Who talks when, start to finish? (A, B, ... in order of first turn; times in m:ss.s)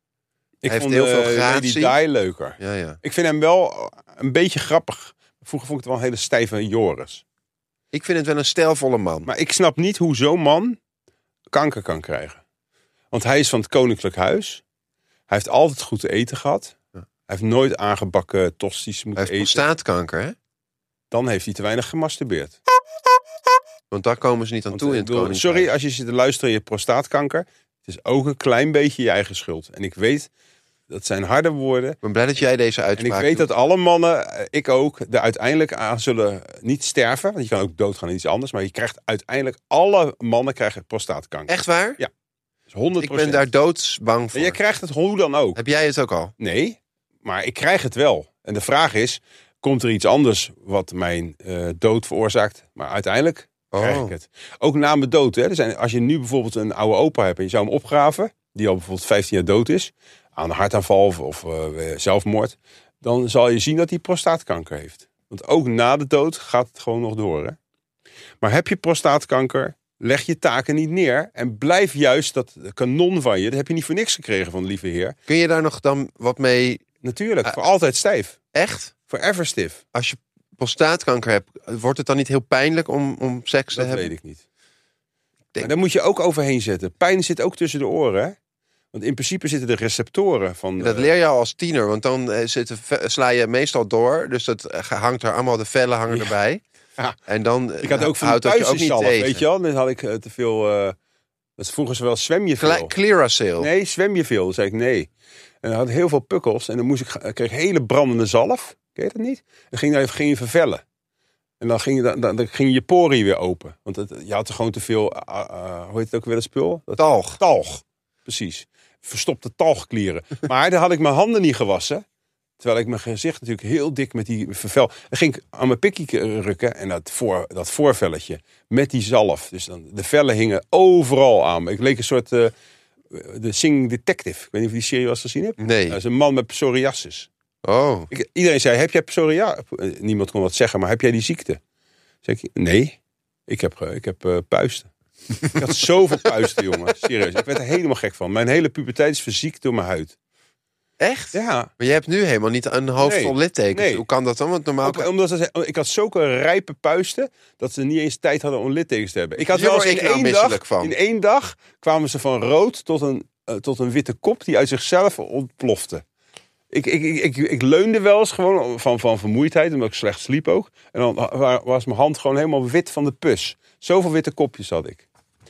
0:00.6-0:07.2 A
0:00.7-0:01.9 B
0:02.6-0:03.0 B
0:07.9-0:09.3 B
0:09.2-0:10.8 A
0:11.5-0:12.4 A
0:13.1-0:14.6 A
0:15.3-0:16.8 A
0:17.3-0:19.6 A
0:19.2-0:20.3 B
0:21.1-0:22.6 A
0:23.9-0:25.7 B
0:24.7-0:30.3 A
0:30.9-0:32.0 A
0:32.0-0:33.5 B
0:33.0-0:42.1 A
0:41.5-0:42.0 B
0:42.7-0:43.5 A
0:43.0-0:44.6 B
0:44.3-0:45.6 A
0:45.6-0:46.3 B
0:46.4-1:07.6 A
0:53.7-0:54.1 B
1:08.4-1:15.2 A
1:15.3-1:16.8 B
1:17.0-1:18.4 A
1:18.5-1:18.9 B
1:19.1-1:19.8 A
1:19.9-1:24.1 B
1:23.7-1:24.4 A
1:25.6-1:28.3 A
1:28.9-1:31.1 A
1:30.8-1:36.6 B
1:37.3-1:39.4 B
1:37.8-1:41.0 A
1:41.6-1:42.9 A
1:42.6-1:43.7 B
1:43.6-1:45.1 A
1:45.6-1:50.8 A
1:51.6-2:02.0 A
1:57.0-1:57.4 B
2:02.6-2:12.5 A
2:13.1-2:17.3 A
2:15.6-2:16.0 B
2:17.6-2:18.1 B
2:18.1-2:21.6 A
2:22.2-2:23.0 A
2:23.5-2:24.9 A
2:25.5-2:30.1 A
2:31.0-2:35.1 B
2:31.3-2:31.7 A
2:33.0-2:34.0 A
2:34.8-2:46.0 A
2:39.4-2:40.9 B
2:46.7-2:55.0 A